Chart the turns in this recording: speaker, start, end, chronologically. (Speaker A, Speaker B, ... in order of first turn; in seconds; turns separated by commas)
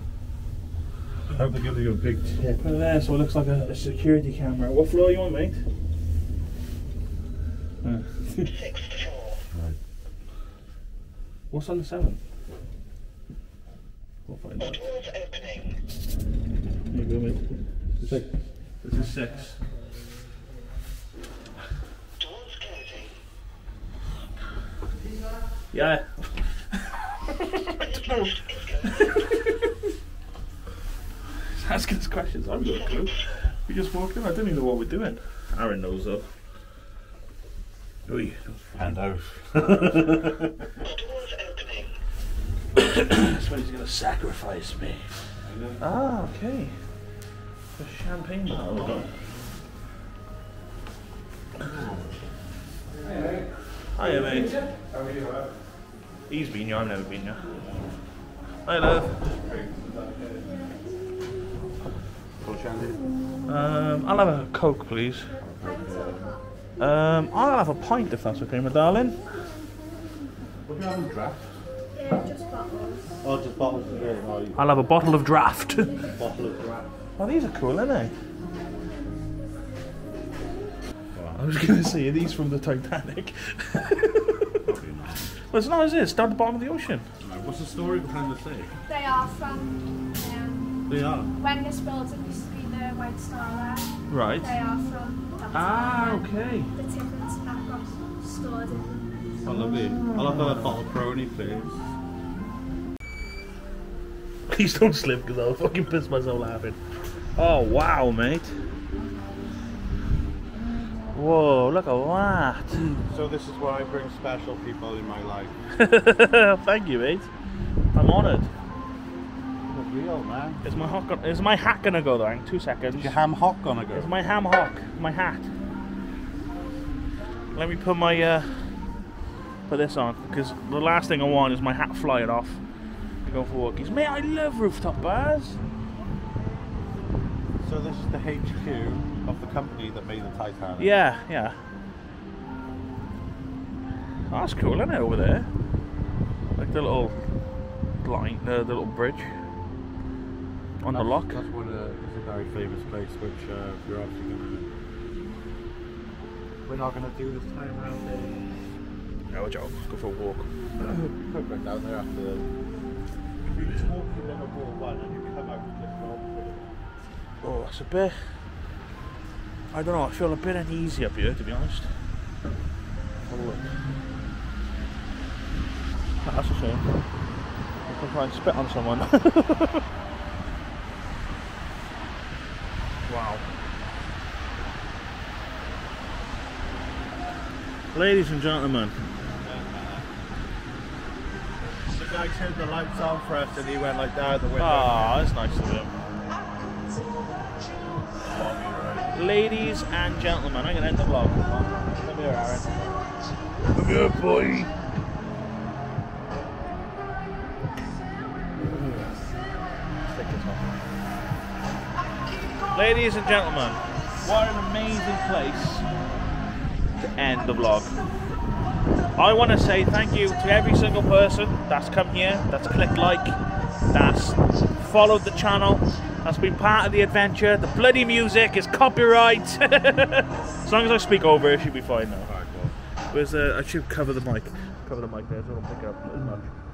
Speaker A: 1.3-2.7, Speaker B: 2.6-5.6, Speaker B: 7.8-8.6, Speaker A: 9.5-9.8, Speaker B: 11.5-12.2, Speaker B: 14.3-14.9, Speaker B: 16.9-18.2, Speaker A: 18.0-18.3, Speaker B: 18.8-19.6, Speaker B: 25.7-29.6, Speaker B: 31.5-36.3, Speaker B: 38.1-38.7, Speaker A: 38.7-40.5, Speaker B: 39.8-40.0, Speaker B: 42.8-45.1, Speaker A: 45.5-45.8, Speaker B: 45.8-46.8, Speaker B: 47.8-49.1, Speaker A: 48.6-49.1, Speaker A: 51.6-52.1, Speaker A: 53.0-53.5, Speaker B: 54.0-54.6, Speaker A: 54.9-55.5, Speaker B: 56.3-57.5, Speaker B: 58.7-59.2, Speaker A: 59.5-60.4, Speaker A: 62.4-63.1, Speaker B: 63.5-65.3, Speaker A: 65.4-66.4, Speaker C: 65.6-66.4, Speaker B: 66.8-69.2, Speaker A: 70.7-71.5, Speaker C: 72.0-73.1, Speaker A: 73.2-74.7, Speaker B: 74.6-76.1, Speaker A: 76.1-76.9, Speaker B: 77.2-78.1, Speaker A: 81.1-81.4, Speaker B: 81.3-84.6, Speaker A: 84.7-85.3, Speaker B: 85.5-87.1, Speaker A: 87.2-88.7, Speaker C: 88.9-96.2, Speaker A: 90.9-91.3, Speaker B: 94.1-94.5, Speaker B: 95.5-96.7, Speaker C: 96.8-99.0, Speaker A: 99.4-101.8, Speaker B: 99.9-100.8, Speaker B: 104.5-106.8, Speaker B: 107.4-108.5, Speaker B: 111.1-112.8, Speaker A: 112.8-115.5, Speaker B: 115.8-117.3, Speaker B: 117.9-118.5, Speaker A: 119.7-120.6, Speaker B: 120.6-123.1, Speaker A: 123.0-124.1, Speaker B: 123.9-125.5, Speaker B: 127.5-128.5, Speaker B: 129.7-132.6, Speaker B: 133.2-135.6, Speaker A: 137.6-141.0, Speaker B: 140.8-141.6, Speaker B: 144.3-145.5, Speaker B: 146.6-147.2, Speaker B: 148.0-149.4, Speaker B: 150.8-151.4, Speaker A: 150.9-154.7, Speaker A: 156.7-158.5, Speaker B: 159.3-160.5, Speaker A: 160.8-162.5, Speaker A: 163.5-166.7, Speaker B: 167.4-168.2, Speaker B: 169.7-171.9, Speaker B: 173.3-173.8, Speaker B: 176.2-176.8, Speaker B: 177.9-179.8, Speaker B: 183.1-183.4, Speaker B: 187.9-189.0, Speaker A: 189.4-190.1, Speaker A: 191.8-195.3, Speaker B: 194.6-195.9, Speaker A: 198.2-199.2, Speaker B: 199.1-203.0, Speaker B: 203.7-204.7, Speaker B: 210.1-210.8, Speaker B: 212.7-215.9, Speaker B: 217.0-217.9, Speaker B: 219.2-223.4, Speaker B: 223.9-232.3, Speaker A: 232.2-232.7, Speaker B: 233.1-236.5